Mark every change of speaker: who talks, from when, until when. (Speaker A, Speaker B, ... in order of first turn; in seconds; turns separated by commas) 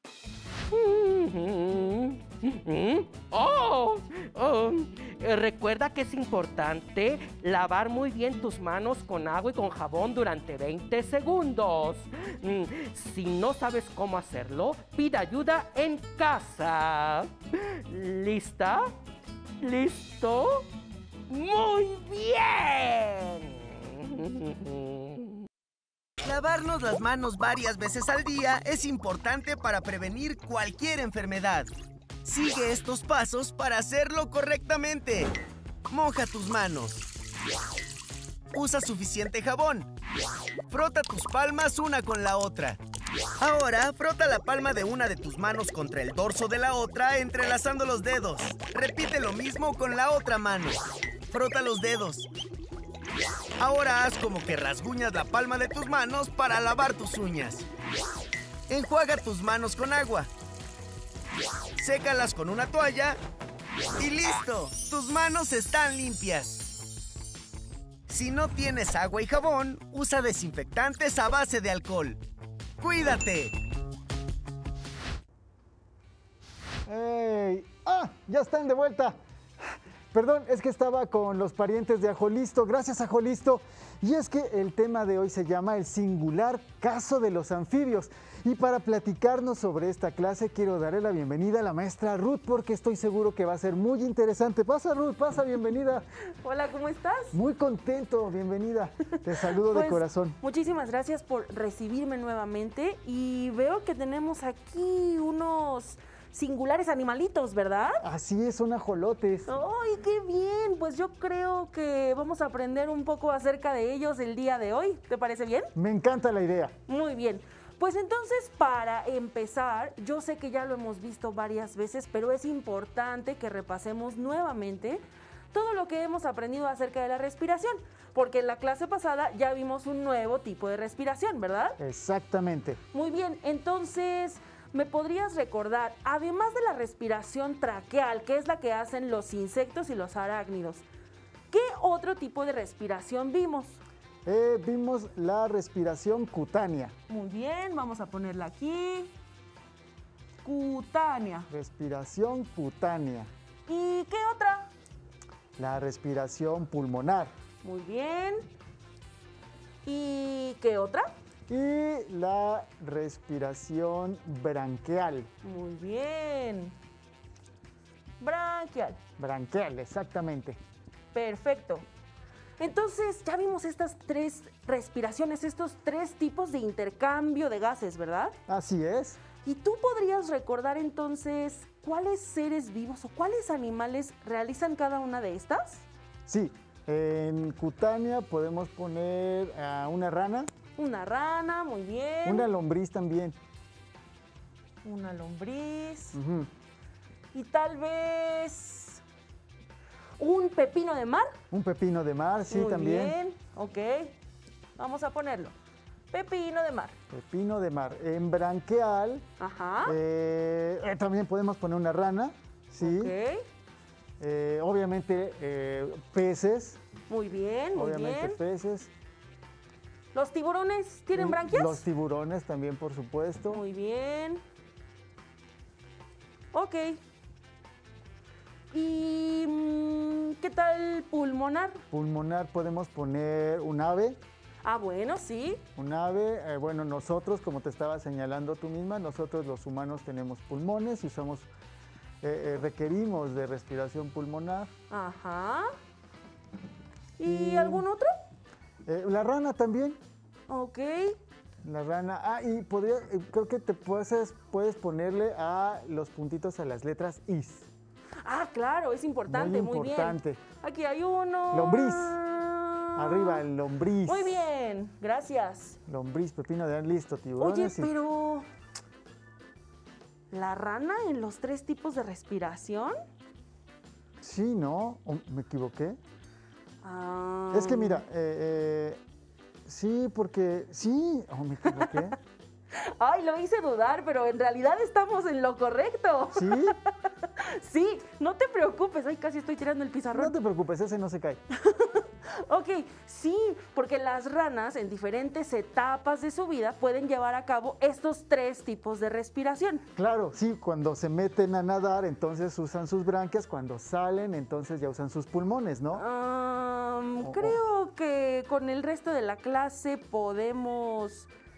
Speaker A: 0.7-18.9, Speaker A: 19.6-20.7, Speaker A: 21.3-25.4, Speaker B: 26.2-31.7, Speaker B: 32.2-35.3, Speaker B: 35.9-37.0, Speaker B: 38.5-39.9, Speaker B: 40.7-42.8, Speaker B: 43.4-50.8, Speaker B: 51.3-52.3, Speaker B: 53.6-57.6, Speaker B: 58.7-60.3, Speaker B: 61.8-63.2, Speaker B: 64.0-66.7, Speaker B: 68.1-72.2, Speaker B: 72.8-73.5, Speaker C: 76.8-96.0, Speaker D: 96.4-97.3, Speaker C: 97.3-100.4, Speaker D: 99.6-108.0, Speaker C: 108.0-109.5, Speaker D: 109.5-115.7, Speaker C: 115.8-116.7, Speaker D: 116.9-131.8, Speaker C: 131.8-132.8, Speaker D: 132.9-140.8, Speaker D: 141.5-143.8, Speaker C: 144.2-146.9, Speaker D: 147.1-149.1, Speaker D: 150.4-151.5, Speaker C: 151.5-153.3, Speaker D: 153.7-154.7, Speaker C: 155.6-157.3, Speaker D: 157.6-158.4, Speaker D: 159.8-161.1, Speaker C: 161.5-165.3, Speaker D: 165.4-166.7, Speaker D: 168.2-169.0, Speaker C: 169.2-170.6, Speaker D: 171.1-171.8, Speaker D: 172.6-178.3, Speaker C: 178.5-179.2, Speaker D: 179.4-185.8, Speaker C: 186.3-190.5, Speaker D: 190.8-192.5, Speaker C: 192.2-193.3, Speaker D: 194.8-196.2, Speaker C: 196.1-196.5, Speaker D: 197.3-199.0, Speaker D: 200.2-201.3, Speaker C: 201.5-203.2, Speaker D: 202.5-204.1, Speaker D: 204.8-205.5, Speaker D: 206.1-206.9, Speaker C: 207.1-209.2, Speaker D: 209.4-210.0, Speaker C: 209.8-213.1, Speaker D: 212.8-213.4, Speaker C: 214.2-216.8, Speaker D: 217.1-218.4, Speaker C: 217.7-218.9, Speaker D: 220.1-221.8, Speaker C: 221.1-223.6, Speaker D: 223.5-224.4, Speaker D: 226.5-227.0, Speaker D: 228.7-231.8, Speaker C: 231.9-234.2, Speaker D: 234.6-235.6, Speaker C: 235.8-241.5, Speaker C: 242.2-244.7, Speaker D: 244.9-245.7, Speaker D: 247.2-248.1, Speaker C: 247.2-247.8, Speaker C: 248.8-250.0, Speaker D: 250.5-251.2, Speaker C: 251.6-257.7, Speaker D: 258.2-263.4, Speaker C: 259.3-260.4, Speaker C: 261.5-262.2, Speaker C: 262.9-264.4, Speaker D: 264.0-265.8, Speaker C: 265.9-267.9, Speaker D: 267.4-268.5, Speaker D: 270.3-273.0, Speaker C: 274.2-276.0, Speaker D: 276.8-278.0, Speaker C: 277.5-279.0, Speaker C: 279.6-282.1, Speaker D: 282.8-290.3, Speaker C: 286.3-286.8, Speaker C: 290.1-291.4, Speaker D: 291.5-299.8, Speaker C: 299.9-306.0, Speaker D: 305.9-311.3, Speaker C: 307.2-307.6